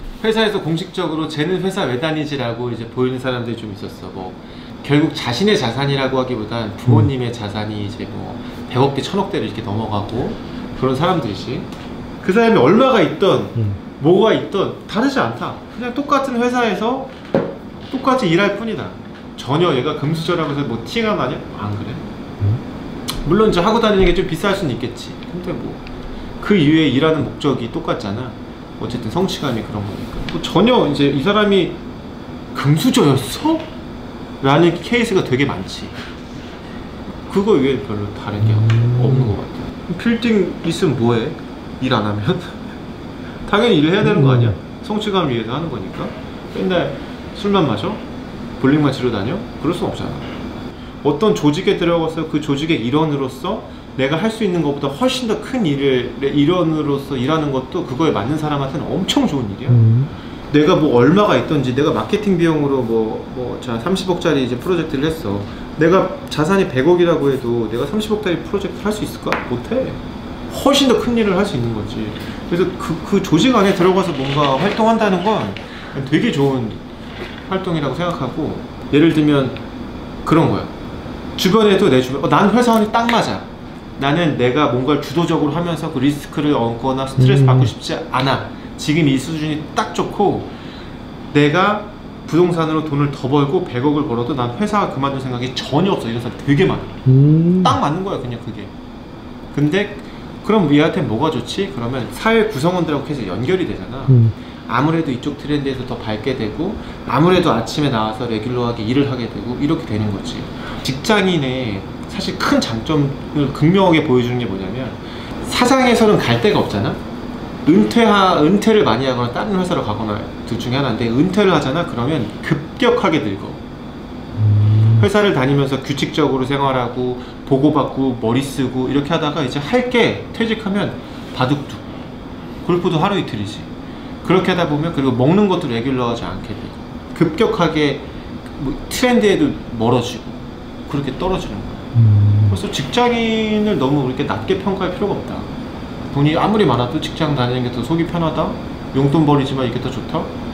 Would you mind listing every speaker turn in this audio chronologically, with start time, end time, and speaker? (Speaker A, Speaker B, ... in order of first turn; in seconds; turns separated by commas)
Speaker A: 0.2-11.7, Speaker A: 12.2-17.1, Speaker A: 17.9-22.0, Speaker A: 23.2-25.9, Speaker A: 26.4-31.8, Speaker A: 32.5-33.7, Speaker A: 34.4-36.0, Speaker A: 37.3-42.7, Speaker B: 38.4-39.3, Speaker A: 43.4-48.0, Speaker B: 44.0-44.6, Speaker A: 48.6-50.3, Speaker A: 51.0-59.8, Speaker B: 59.7-60.1, Speaker A: 60.5-76.8, Speaker A: 77.5-79.6, Speaker A: 80.2-80.7, Speaker A: 81.3-90.5, Speaker B: 87.2-87.7, Speaker A: 91.3-97.0, Speaker B: 97.0-97.8, Speaker A: 97.6-98.7, Speaker A: 99.5-117.0, Speaker B: 104.1-104.3, Speaker A: 117.6-123.6, Speaker B: 124.4-125.1, Speaker A: 125.0-131.9, Speaker A: 132.6-133.7, Speaker A: 134.2-141.8, Speaker B: 141.9-142.6, Speaker A: 142.5-145.5, Speaker A: 146.1-150.3